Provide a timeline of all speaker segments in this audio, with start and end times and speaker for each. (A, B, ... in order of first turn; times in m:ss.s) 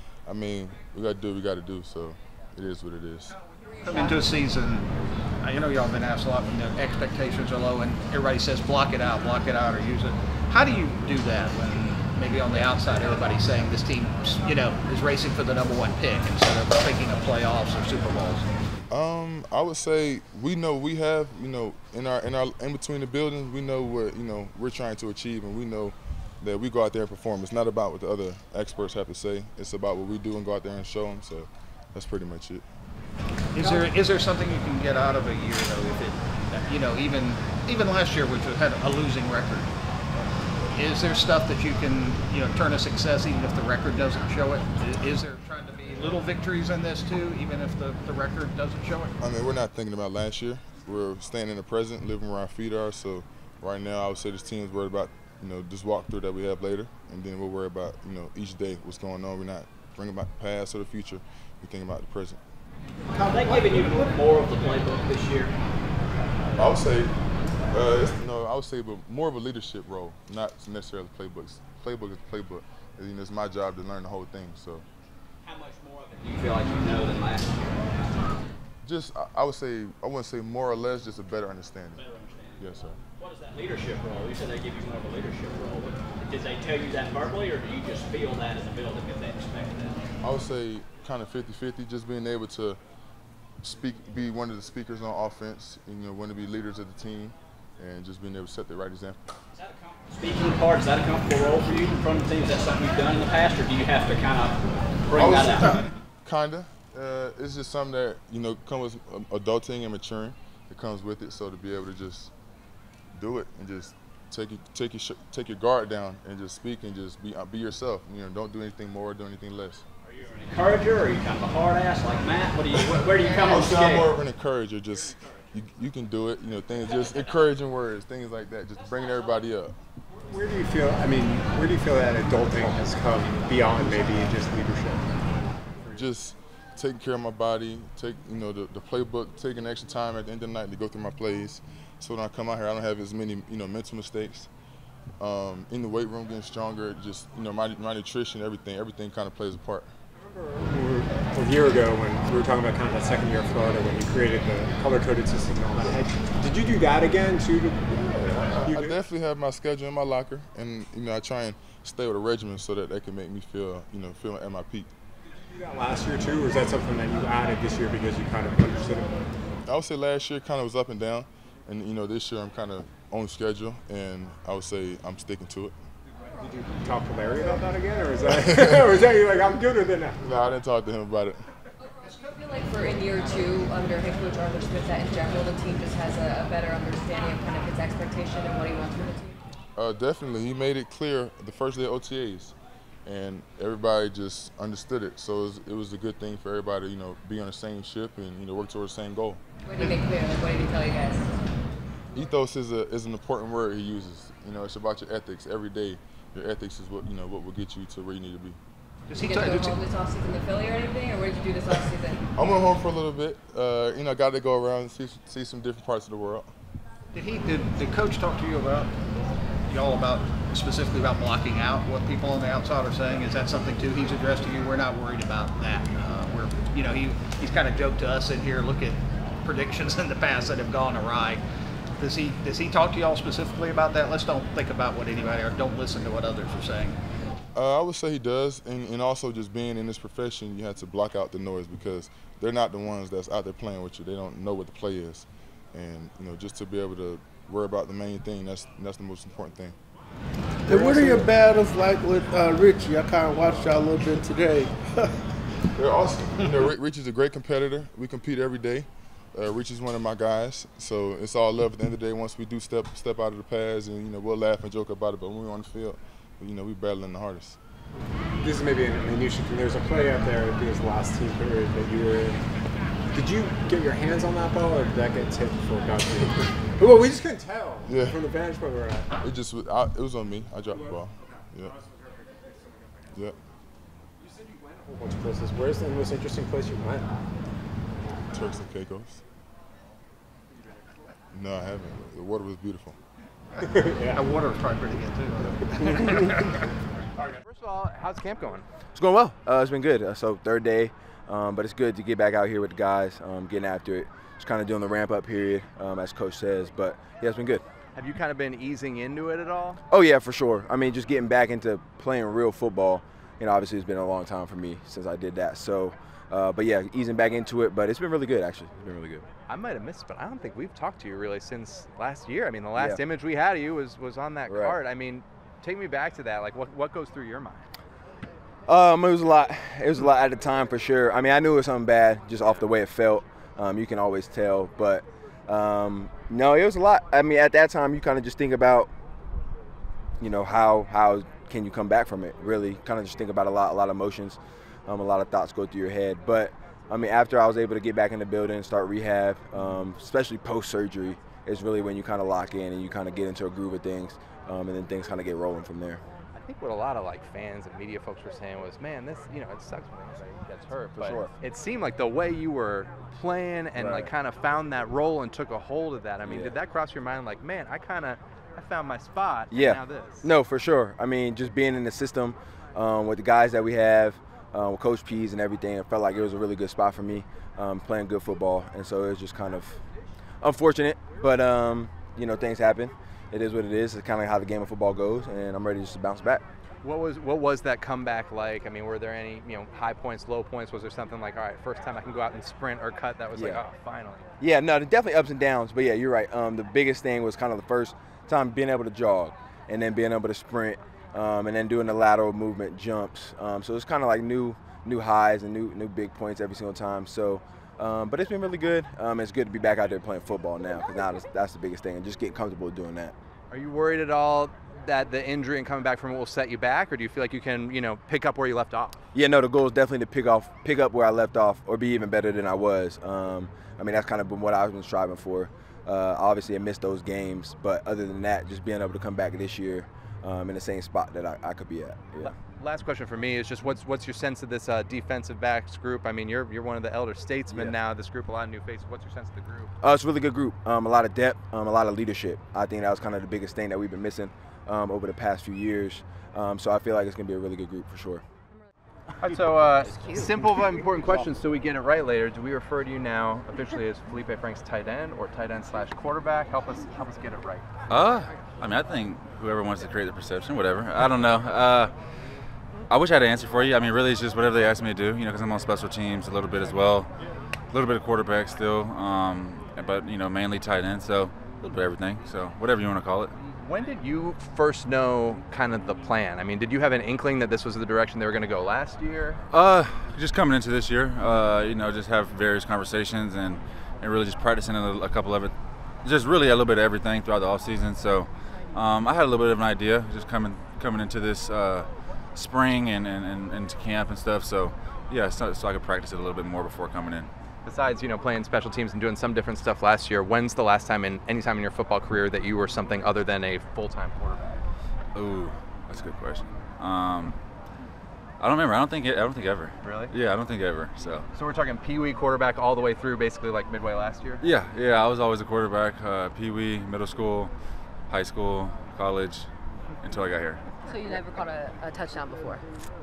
0:00.2-0:03.4 A
0:03.8-0:04.8 B
0:05.4-0:18.4 B
0:18.9-0:32.6 A
0:33.5-0:39.7 B
0:40.7-0:49.1 B
0:49.2-1:02.4 A
1:03.1-1:05.5 C
1:06.6-1:07.1 A
1:07.7-1:14.8 A
1:15.4-1:18.4 C
1:18.8-1:22.0 A
1:22.0-1:22.6 C
1:22.6-1:23.0 A
1:23.2-1:30.0 C
1:30.2-1:32.8 A
1:33.6-1:39.2 A
1:39.5-1:45.8 C
1:45.1-1:52.3 A
1:53.1-1:59.8 A
2:00.1-2:04.0 C
2:02.8-2:09.8 A
2:10.3-2:15.1 D
2:15.9-2:24.5 A
2:25.2-2:29.9 A
2:30.6-2:37.9 D
2:38.0-2:44.9 A
2:38.6-2:39.0 D
2:45.6-2:49.1 D
2:49.7-2:55.8 A
2:56.4-3:00.2 D
3:00.2-3:01.4 A
3:02.0-3:09.4 E
3:09.8-3:12.5 A
3:13.0-3:19.4 A
3:19.6-3:21.2 E
3:22.1-3:28.6 A
3:29.1-3:29.8 B
3:29.2-3:32.2 E
3:32.4-3:36.5 A
3:37.1-3:38.9 B
3:39.7-3:51.4 B
3:52.0-3:57.0 B
3:57.5-4:09.8 A
4:10.6-4:14.9 F
4:10.7-4:11.0 D
4:15.8-4:27.6 A
4:28.4-4:32.4 D
4:33.1-4:39.1 D
4:37.8-4:38.2 A
4:39.2-4:41.8 A
4:44.8-4:47.0 D
4:48.3-4:49.2 A
4:51.3-4:53.0 A
4:53.7-4:54.2 D
4:54.1-4:56.4 B
4:57.4-4:58.6 G
4:58.9-5:07.6 H
5:07.9-5:09.8 G
5:09.9-5:19.2 H
5:19.5-5:27.7 G
5:22.7-5:23.0 H
5:24.5-5:24.8 H
5:28.7-5:38.9 H
5:40.2-5:56.0 H
5:49.6-5:49.8 G
5:56.3-6:10.3 G
6:01.0-6:01.3 H
6:03.7-6:04.1 H
6:06.2-6:06.6 H
6:09.5-6:19.8 H
6:20.4-6:26.4 H
6:26.8-6:34.2 G
6:33.3-6:33.6 H
6:34.4-6:53.1 H
6:53.5-6:59.0 G
6:59.1-7:12.3 H
7:12.2-7:19.7 G
7:17.5-7:17.8 H
7:19.8-7:28.2 H
7:29.2-7:37.7 G
7:29.8-7:30.5 C
7:37.9-7:41.9 I
7:42.9-7:47.1 I
7:47.7-7:53.3 I
7:53.6-7:59.4 G
7:59.5-8:17.3 I
8:17.6-8:24.6 G
8:25.1-8:27.4 I
8:28.4-8:31.2 I
8:29.8-8:30.1 G
8:31.3-8:34.4 G
8:34.4-8:37.5 I
8:38.1-8:39.5 I
8:40.0-8:40.6 I
8:40.8-8:42.6 E